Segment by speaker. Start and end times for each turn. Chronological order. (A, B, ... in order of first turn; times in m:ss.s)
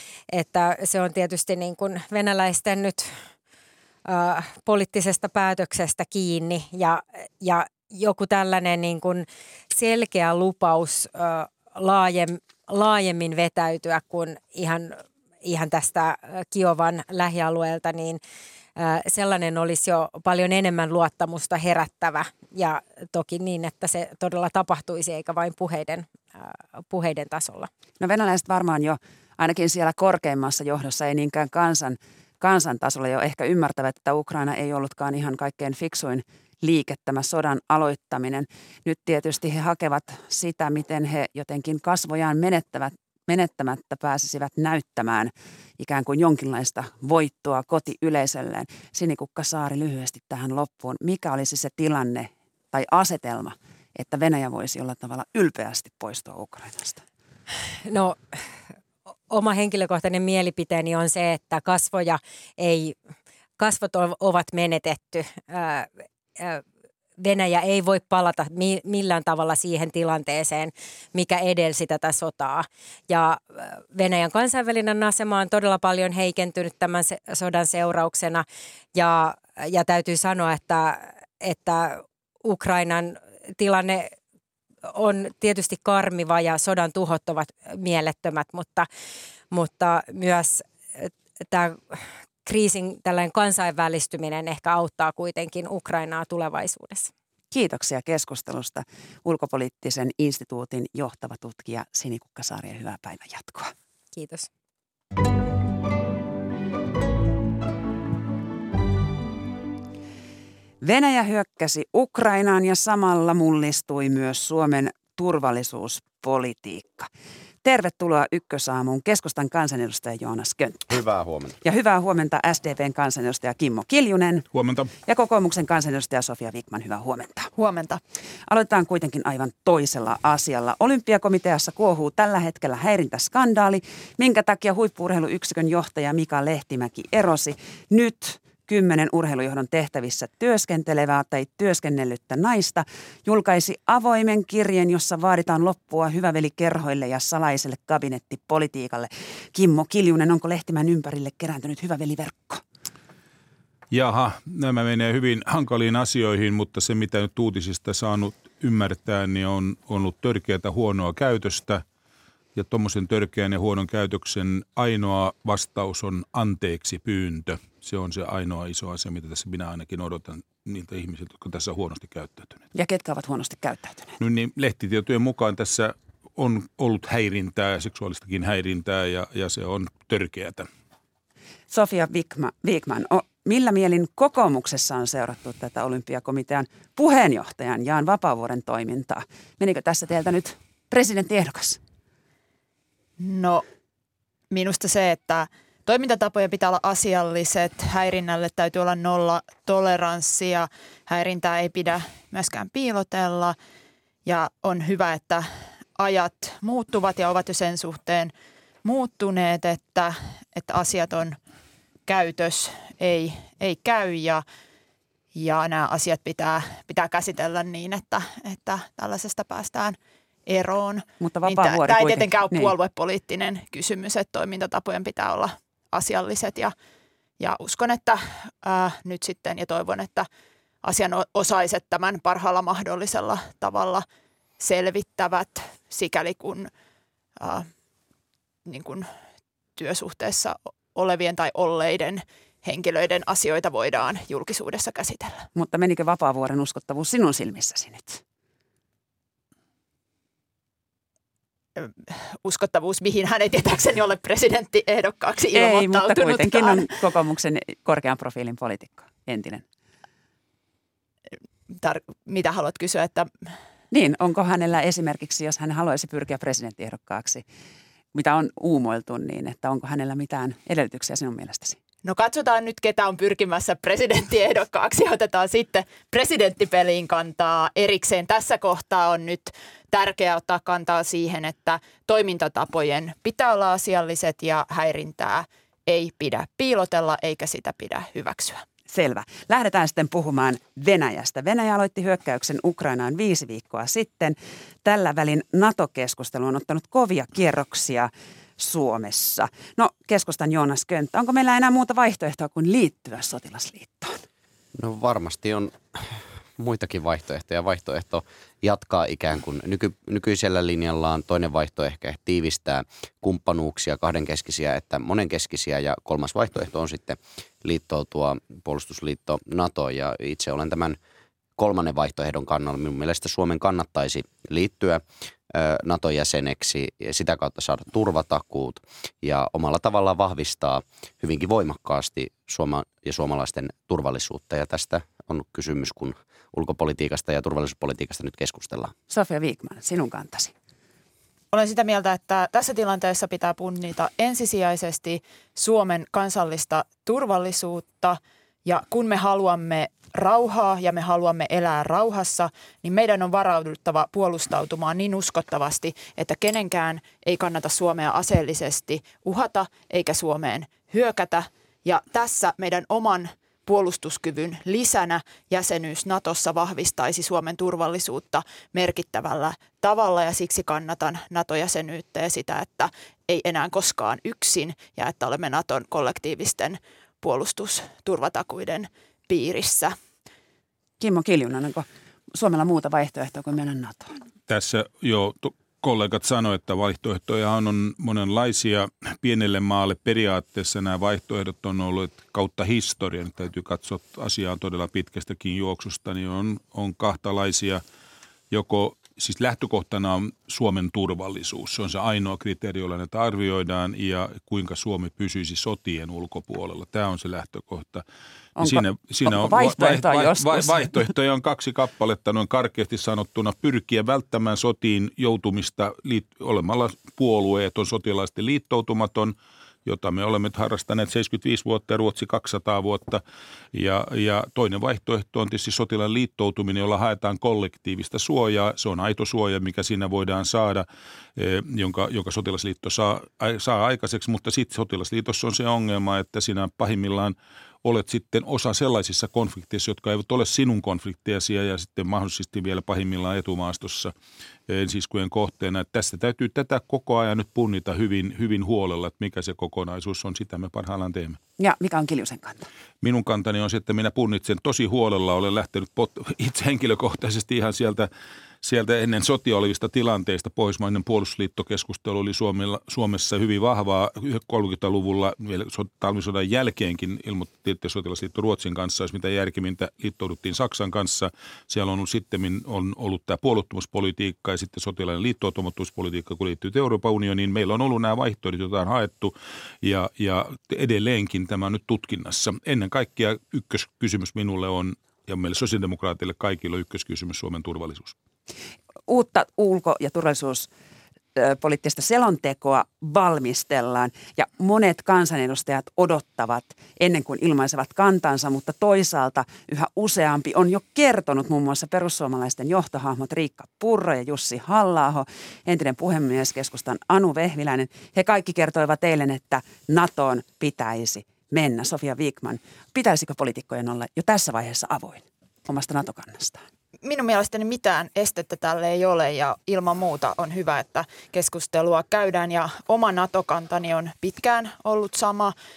0:00.3-0:03.1 A
0:04.0-0:18.2 A
0:18.8-0:27.7 A
0:28.0-0:57.0 B
0:57.8-0:58.2 A
0:59.3-1:02.9 A
1:03.6-1:06.6 A
1:07.2-1:24.1 A
1:24.9-1:28.9 A
1:29.5-1:37.1 A
1:37.5-1:43.7 B
1:44.1-1:44.5 A
1:50.8-1:57.1 B
1:57.6-2:01.0 B
2:00.9-2:01.6 C
2:01.6-2:04.4 B
2:04.5-2:04.9 D
2:05.0-2:07.5 B
2:07.5-2:08.0 E
2:08.5-2:32.6 B
2:33.9-2:41.8 D
2:42.5-2:52.6 D
2:52.7-2:54.2 B
2:54.2-3:00.6 D
3:01.7-3:11.8 B
3:13.2-3:13.6 E
3:14.5-3:23.6 E
3:24.2-3:28.3 E
3:28.8-3:31.4 E
3:32.1-3:34.4 E
3:35.3-3:40.0 E
3:40.5-3:46.7 E
3:41.2-3:42.7 B
3:47.4-3:50.3 E
3:50.8-3:54.0 E
3:54.6-3:56.7 E
3:57.4-3:57.7 E
3:58.6-3:59.1 E
3:59.8-4:05.5 E
4:05.5-4:08.2 B
4:11.8-4:16.9 E
4:15.5-4:19.6 B
4:21.7-4:23.5 E
4:23.9-4:27.4 B
4:28.1-4:31.8 B
4:32.0-4:48.6 E
4:48.9-5:04.2 B
5:04.8-5:21.0 C
5:21.6-5:38.9 C
5:39.1-5:40.5 B
5:41.5-6:19.9 E
6:21.0-6:24.2 B
6:24.5-6:37.8 D
6:38.5-6:48.0 D
6:48.6-6:51.1 B
6:48.6-7:03.2 D
7:03.7-7:10.8 D
7:11.4-7:24.1 D
7:24.7-7:31.4 D
7:31.6-7:32.7 B
7:33.0-7:38.1 D
7:38.6-8:08.1 D
8:09.1-8:10.7 B
8:11.4-8:36.6 B
8:37.0-8:45.5 E